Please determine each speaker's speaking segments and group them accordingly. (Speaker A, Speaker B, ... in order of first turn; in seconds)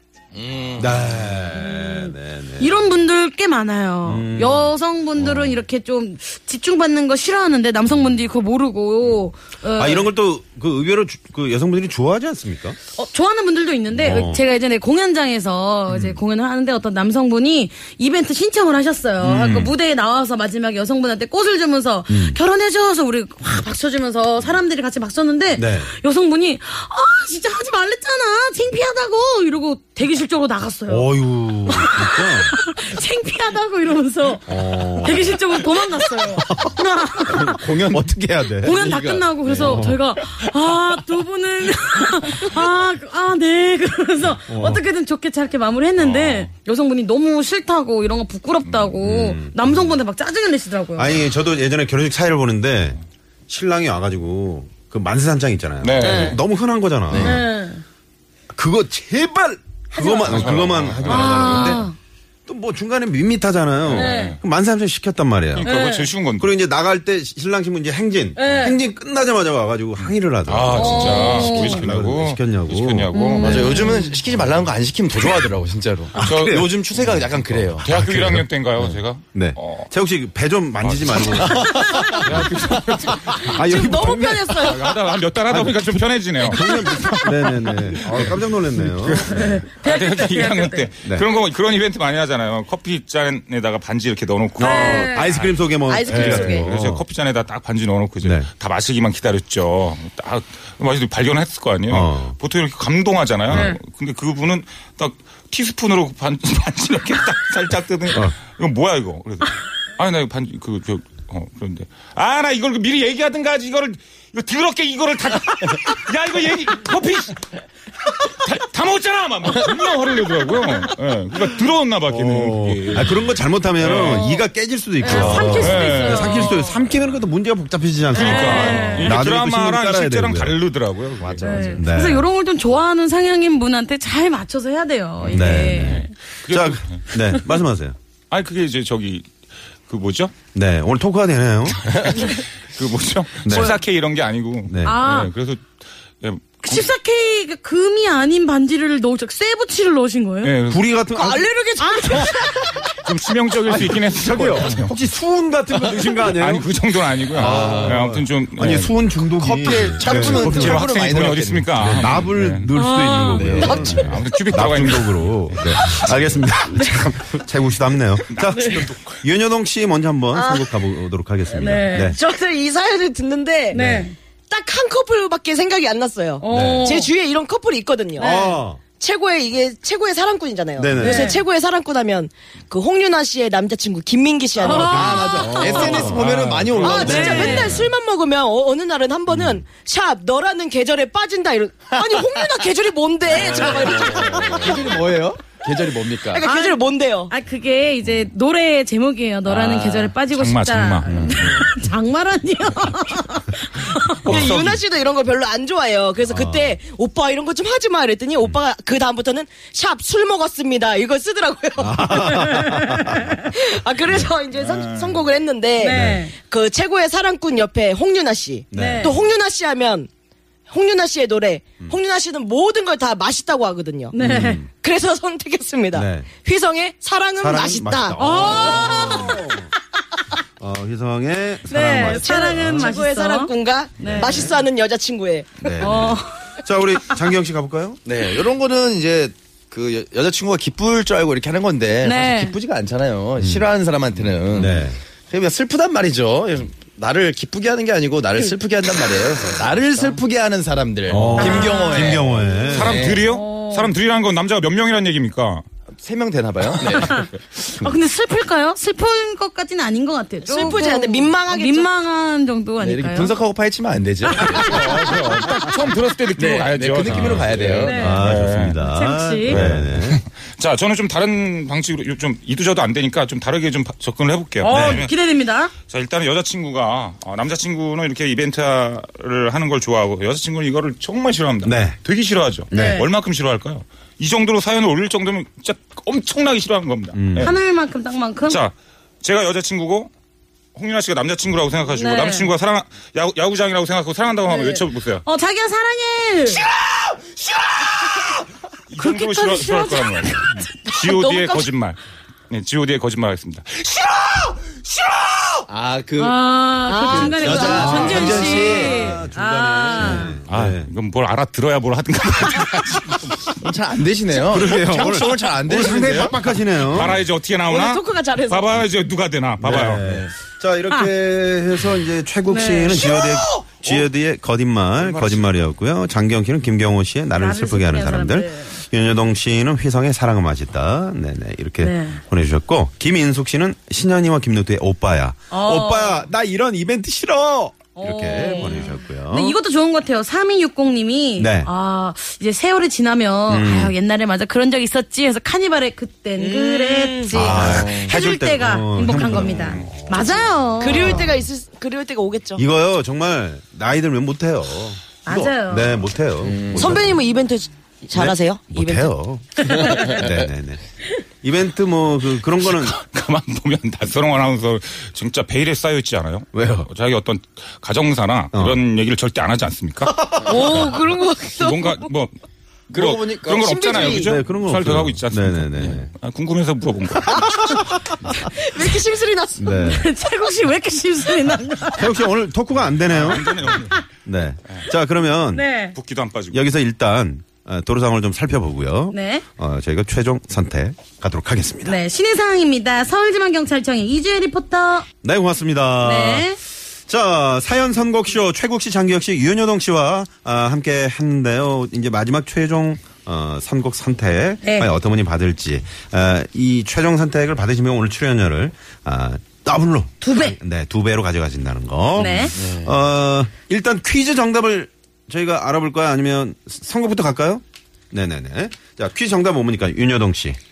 Speaker A: 0.3-1.2, 37.3-39.8, 57.1-57.4, 73.3-77.9, 81.4-82.3, 131.2-131.8, 157.3-158.0, 159.3-161.8, 163.3-163.9, 184.8-187.8, 193.3-196.5, 199.4-200.2, 201.1-201.5, 238.1-253.2, 256.0-257.3, 262.8-264.8, 266.4-268.0, 269.5-269.8, 305.7-306.4, 307.1-307.8, 308.5-308.9, 313.6-316.5, 320.0-320.3, 323.7-324.1, 324.9-325.7, 356.4-357.2, 359.9-360.2, 372.9-374.3, 412.5-412.9
Speaker B: 0.8-2.8, 4.0-5.6, 9.8-12.8, 13.9-14.4, 15.9-16.2, 19.2-19.7, 22.1-22.4, 25.5-25.9, 30.9-32.5, 34.5-35.6, 36.2-36.8, 37.3-37.6, 39.5-40.0, 44.5-44.8, 49.0-50.0, 51.0-57.4, 58.5-61.9, 62.5-65.8, 66.4-73.8, 76.1-78.5, 79.3-82.5, 83.3-84.6, 85.5-89.6, 94.6-97.0, 98.2-98.5, 101.9-102.4, 103.5-103.8, 122.1-130.6, 131.8-132.3, 135.3-137.9, 140.5-141.9, 143.4-143.8, 144.7-145.0, 150.7-151.5, 153.7-172.2, 173.7-174.1, 176.5-176.9, 178.2-178.8, 180.8-181.3, 185.4-187.3, 189.3-189.6, 201.1-201.5, 204.3-204.7, 206.3-206.8, 211.8-213.3, 214.1-214.3, 215.8-216.2, 218.7-219.3, 224.2-224.7, 225.9-226.3, 227.4-229.7, 230.6-232.9, 234.0-234.5, 235.6-238.0, 243.4-243.7, 244.5-245.0, 251.1-253.1, 267.0-270.2, 274.7-275.1, 281.6-282.0, 282.7-283.0, 287.1-287.5, 307.4-310.9, 314.3-317.2, 319.6-339.6, 341.4-341.7, 343.5-343.9, 347.3-351.4, 352.6-357.1, 358.1-360.8, 361.4-363.0, 366.5-366.9, 368.5-368.8, 370.1-370.3, 374.1-376.1, 379.6-380.1, 381.9-383.6, 384.2-385.7, 386.5-392.0, 395.2-396.5, 397.1-420.6
Speaker C: 1.3-10.1, 12.9-37.6, 38.6-51.2, 57.2-57.8, 60.0-60.5, 61.0-62.0, 63.9-64.4, 65.6-66.1, 68.3-68.8, 70.7-71.8, 73.1-74.1, 89.3-90.9, 94.6-95.3, 103.5-103.8, 123.9-124.4, 125.0-126.8, 128.1-129.2, 131.4-136.1, 144.8-145.3, 146.6-150.6, 151.8-152.3, 162.7-163.7, 166.7-167.1, 168.5-168.8, 171.5-172.1, 173.7-174.1, 176.4-177.1, 178.2-178.6, 181.0-181.4, 184.6-186.2, 186.8-187.8, 196.4-204.3, 212.2-213.3, 215.8-216.3, 218.7-219.1, 224.1-224.6, 228.2-229.4, 231.7-234.5, 235.8-236.3, 242.0-242.6, 251.3-253.9, 256.9-263.3, 264.3-265.3, 267.8-268.3, 268.8-269.6, 274.6-275.7, 282.7-283.1, 287.4-288.6, 291.9-292.5, 294.5-296.6, 299.0-300.6, 306.2-310.4, 322.5-323.1, 327.3-328.8, 331.8-332.2, 335.5-336.3, 337.9-351.3, 355.2-356.0, 359.8-360.2, 379.6-382.2, 385.5-385.9, 389.1-389.4, 391.8-395.1, 396.0-396.6, 404.6-404.9, 410.2-410.6, 412.1-412.6
Speaker D: 46.0-46.5, 48.6-48.9, 55.8-56.4, 60.2-61.7, 63.8-64.3, 65.5-66.5, 70.0-73.6, 76.1-76.6, 77.8-79.9, 80.8-81.3, 82.2-83.9, 84.6-117.5, 118.1-124.3, 125.1-126.7, 128.1-131.8, 135.2-137.0, 138.3-139.3, 139.9-140.3, 141.8-145.7, 146.2-146.9, 150.4-150.9, 153.0-154.9, 155.7-159.1, 160.0-162.7, 163.7-166.5, 168.4-169.0, 186.3-186.9, 200.3-201.6, 204.2-204.8, 214.6-215.1, 252.7-255.6, 264.4-268.8, 269.6-275.2, 275.9-287.6, 288.5-290.1, 290.7-295.2, 298.9-305.6, 310.4-313.6, 316.8-320.1, 362.6-371.0, 371.5-372.3, 372.9-378.0, 383.1-384.0, 385.9-386.6
Speaker E: 56.0-56.3, 83.5-84.8, 95.9-96.7, 151.2-152.9, 163.8-164.3, 170.3-170.7, 172.0-173.8, 174.5-178.3, 178.9-186.2, 186.8-195.1, 196.3-197.3, 204.2-212.5, 213.4-220.1, 220.7-224.2, 224.7-229.2, 231.9-235.7, 260.4-261.9, 301.0-301.6, 306.9-309.2, 317.7-318.8, 346.4-347.6, 350.8-352.6, 356.7-359.1, 370.4-372.1, 373.6-374.3, 377.2-379.7